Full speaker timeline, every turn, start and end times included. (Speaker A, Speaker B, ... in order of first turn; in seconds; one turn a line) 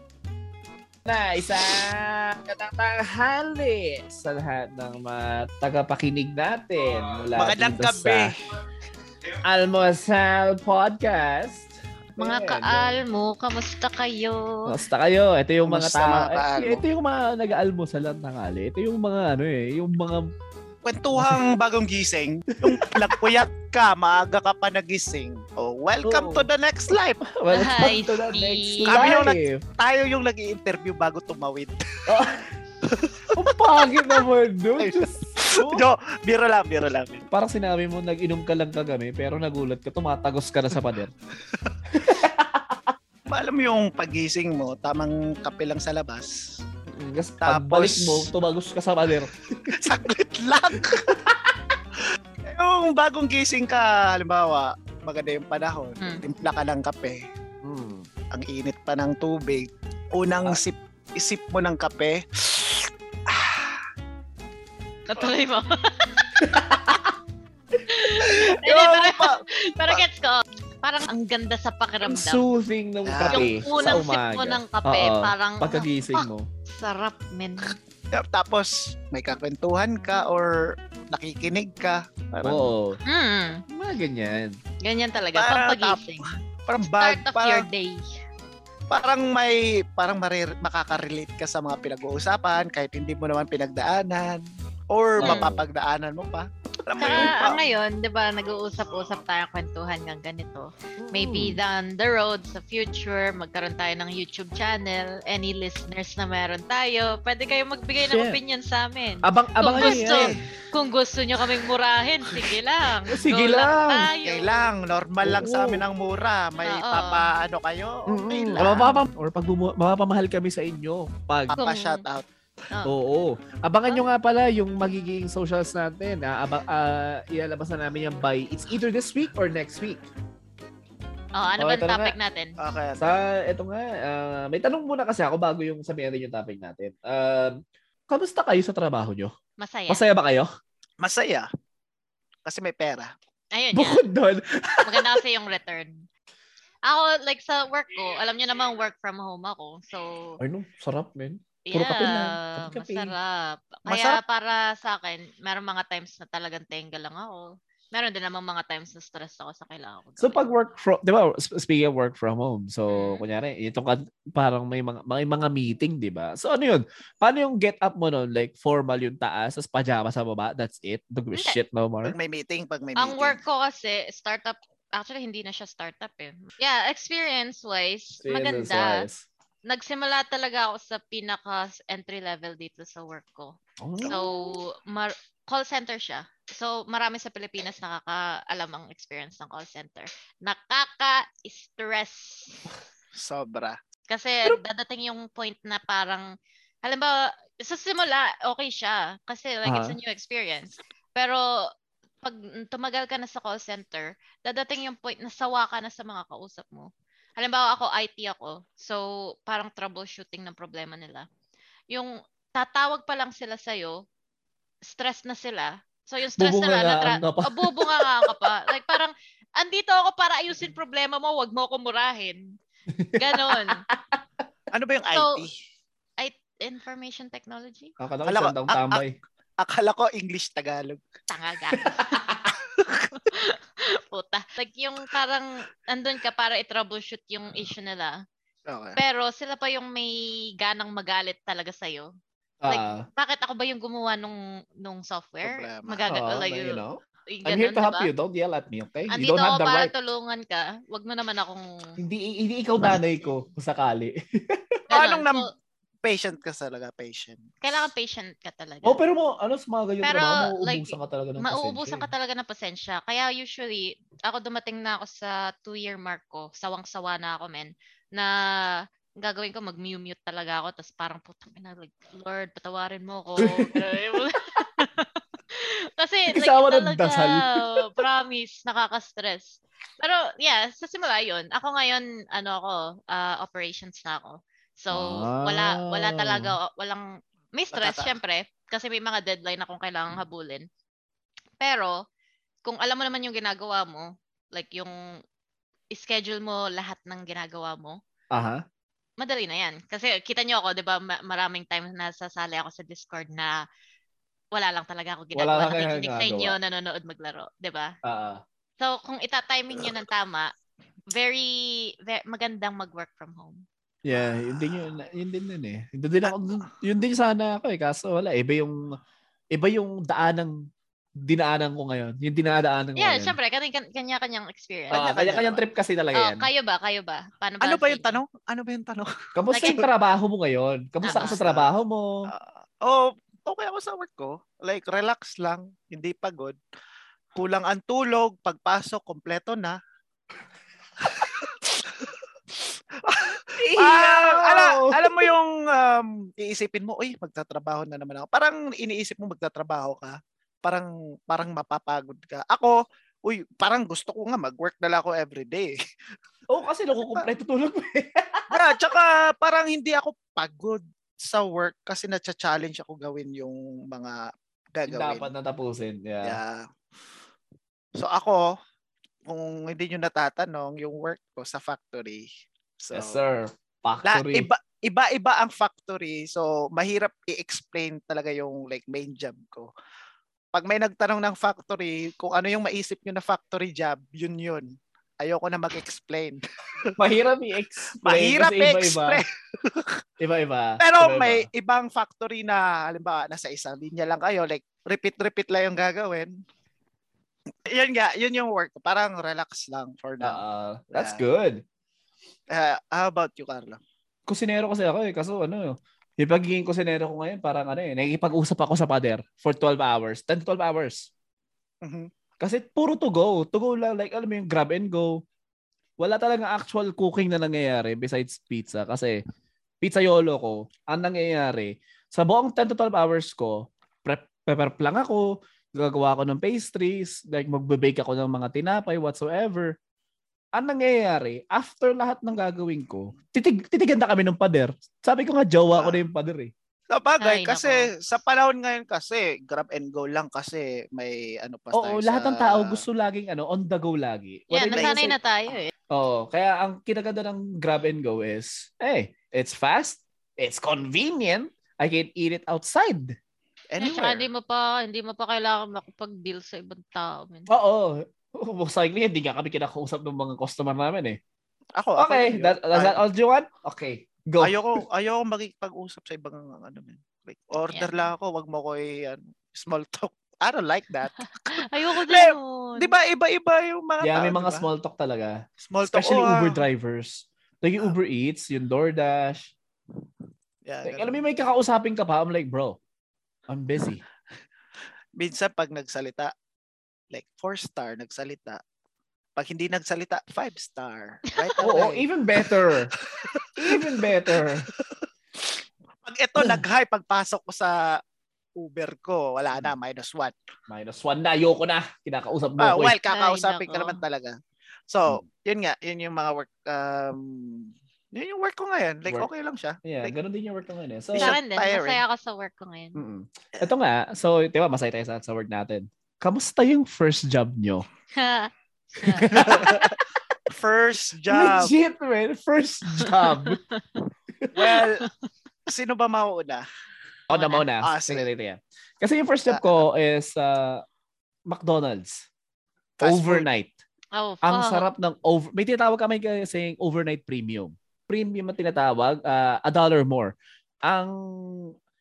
Speaker A: 1.1-8.3
Speaker B: 7.4-8.4
Speaker A: 9.4-13.0
Speaker C: 12.2-14.7
Speaker A: 14.7-20.3
Speaker B: 15.7-16.8
Speaker B: 20.9-27.2
Speaker A: 21.1-21.4
Speaker A: 22.6-23.4
Speaker A: 26.0-26.5
Speaker A: 27.2-29.6
Speaker C: 27.5-29.1
Speaker B: 28.9-32.3
Speaker A: 32.1-32.5
Speaker B: 32.8-33.5
Speaker A: 33.3-35.9
Speaker B: 34.8-37.2
Speaker A: 37.3-41.1
Speaker A: 41.9-43.0
Speaker B: 43.3-46.6
Speaker A: 46.9-49.8
Speaker B: 47.4-48.3
Speaker B: 49.7-51.2
Speaker A: 50.8-51.6
Speaker B: 52.5-57.2
Speaker A: 57.6-58.1
Speaker B: 58.3-63.8
Speaker C: 65.1-66.3
Speaker A: 66.4-67.2
Speaker C: 67.9-72.5
Speaker B: 68.4-70.0
Speaker A: 72.0-76.5
Speaker B: 73.0-74.0
Speaker C: 73.3-75.9
Speaker C: 76.7-77.8
Speaker B: 78.1-82.7
Speaker A: 82.4-83.0
Speaker C: 83.1-83.6
Speaker A: 83.7-84.6
Speaker C: 84.8-86.3
Speaker B: 85.3-87.7
Speaker C: 86.8-88.1
Speaker B: 88.9-97.6
Speaker A: 95.2-95.7
Speaker C: 95.2-95.5
Speaker C: 97.0-114.7
Speaker A: 101.0-101.6
Speaker A: 108.0-108.4
Speaker A: 109.2-110.3
Speaker B: 109.8-110.4
Speaker A: 113.1-114.1
Speaker B: 114.2-119.0
Speaker A: 115.2-115.8
Speaker C: 116.6-117.3
Speaker A: 118.1-121.6
Speaker B: 121.5-122.2
Speaker C: 121.6-122.0
Speaker A: 122.9-130.0
Speaker C: 131.4-132.6
Speaker A: 131.6-132.2
Speaker B: 132.6-133.1
Speaker A: 133.0-139.3
Speaker C: 139.6-140.0
Speaker A: 139.9-140.5
Speaker B: 141.0-141.5
Speaker B: 142.4-143.1
Speaker C: 143.5-144.0
Speaker A: 143.7-145.2
Speaker C: 144.8-146.1
Speaker C: 146.9-150.4
Speaker A: 150.4-153.2
Speaker C: 151.7-160.7
Speaker B: 153.9-154.2
Speaker A: 160.2-172.2
Speaker C: 162.9-163.2
Speaker B: 172.0-173.4
Speaker C: 173.0-179.1
Speaker A: 178.2-179.3
Speaker C: 179.7-192.6
Speaker A: 183.8-184.5
Speaker B: 193.2-193.8
Speaker C: 194.1-196.3
Speaker C: 196.8-201.4
Speaker A: 199.7-200.0
Speaker C: 202.2-211.3
Speaker C: 211.9-214.0
Speaker C: 214.9-222.5
Speaker A: 216.4-218.5
Speaker A: 222.9-224.2
Speaker C: 223.2-223.8
Speaker B: 224.7-225.6
Speaker C: 225.1-225.4
Speaker C: 226.2-227.9
Speaker A: 228.0-229.2
Speaker B: 228.3-229.0
Speaker B: 229.6-231.0
Speaker C: 231.3-232.2
Speaker A: 231.9-232.5
Speaker B: 232.7-233.1
Speaker C: 233.2-238.2
Speaker B: 238.7-239.0
Speaker C: 239.0-242.1
Speaker A: 242.6-243.1
Speaker C: 242.7-248.1
Speaker B: 245.4-246.0
Speaker A: 246.1-249.9
Speaker C: 249.1-251.7
Speaker A: 252.0-254.8
Speaker C: 254.9-255.4
Speaker B: 254.9-255.5
Speaker B: 256.0-257.6
Speaker C: 257.6-259.0
Speaker A: 258.8-262.1
Speaker C: 260.0-290.7
Speaker A: 273.4-274.7
Speaker A: 276.3-277.9
Speaker A: 284.9-286.6
Speaker B: 287.7-288.2
Speaker C: 291.6-291.9
Speaker C: 292.6-295.0
Speaker C: 295.9-298.0
Speaker A: 298.3-298.6
Speaker C: 299.2-303.6
Speaker C: 304.5-307.9
Speaker A: 305.4-306.6
Speaker A: 308.0-308.4
Speaker C: 308.8-310.5
Speaker C: 311.1-313.6
Speaker A: 314.0-319.0
Speaker B: 314.1-314.9
Speaker A: 319.5-320.6
Speaker A: 321.2-323.4
Speaker C: 323.0-325.1
Speaker A: 324.9-326.5
Speaker B: 324.9-325.6
Speaker C: 326.1-328.2
Speaker B: 327.6-329.9
Speaker A: 329.4-332.3
Speaker C: 329.5-329.8
Speaker C: 331.0-331.4
Speaker B: 331.4-331.7
Speaker B: 332.3-336.6
Speaker B: 337.4-339.8
Speaker B: 341.0-355.8
Speaker A: 343.6-345.3
Speaker A: 356.5-358.8
Speaker B: 358.5-365.3
Speaker A: 364.9-366.4
Speaker B: 366.2-366.6
Speaker B: 367.9-368.5
Speaker B: 369.3-372.3
Speaker B: 372.8-373.2
Speaker A: 372.9-374.5
Speaker B: 374.1-379.7
Speaker B: 380.5-386.9
Speaker A: 387.0-389.2
Speaker B: 388.0-390.0
Speaker A: 390.2-391.5
Speaker B: 390.8-396.3
Speaker B: 397.7-400.4
Speaker A: 400.2-401.6
Speaker B: 400.9-401.2
Speaker B: 402.5-403.8
Speaker A: 404.3-411.1
Speaker B: 411.8-412.1
Speaker A: 412.4-415.2
Speaker A: 416.0-419.2
Speaker A: 419.8-429.8
Speaker A: 430.6-436.5
Speaker B: 435.8-436.0
Speaker B: 436.9-442.8
Speaker C: 437.2-437.9
Speaker A: 441.7-445.1
Speaker C: 444.5-445.7
Speaker B: 444.8-445.1
Speaker A: 445.9-453.2
Speaker B: 453.7-454.2
Speaker C: 453.8-457.5
Speaker A: 457.5-461.2
Speaker B: 461.8-463.0
Speaker A: 462.0-464.8
Speaker B: 464.4-474.7
Speaker C: 467.7-468.1
Speaker C: 471.2-472.9
Speaker A: 474.0-479.5
Speaker B: 475.6-476.6
Speaker B: 480.6-481.2
Speaker A: 480.9-482.8
Speaker A: 483.5-484.0
Speaker B: 485.2-486.3
Speaker B: 487.1-488.6
Speaker B: 489.4-492.5
Speaker A: 491.6-492.9
Speaker B: 493.1-494.8
Speaker A: 493.6-494.7
Speaker B: 496.0-498.0
Speaker A: 496.4-496.6
Speaker B: 498.6-500.4
Speaker A: 500.7-503.0
Speaker B: 502.6-504.4
Speaker C: 503.1-504.0
Speaker B: 504.9-510.1
Speaker A: 509.8-511.4
Speaker B: 511.1-512.0
Speaker C: 511.2-513.0
Speaker A: 513.0-517.9
Speaker C: 518.2-519.8
Speaker A: 519.0-520.0
Speaker B: 519.3-520.0
Speaker B: 520.5-521.7
Speaker A: 521.3-523.6
Speaker C: 523.0-524.0
Speaker A: 524.4-524.8
Speaker B: 524.5-525.1
Speaker B: 525.7-526.6
Speaker A: 527.3-530.8
Speaker C: 527.3-527.7
Speaker B: 527.8-528.3
Speaker B: 529.5-529.8
Speaker A: 531.5-532.3
Speaker B: 533.0-533.5
Speaker A: 533.0-533.7
Speaker C: 534.1-534.9
Speaker A: 534.4-541.7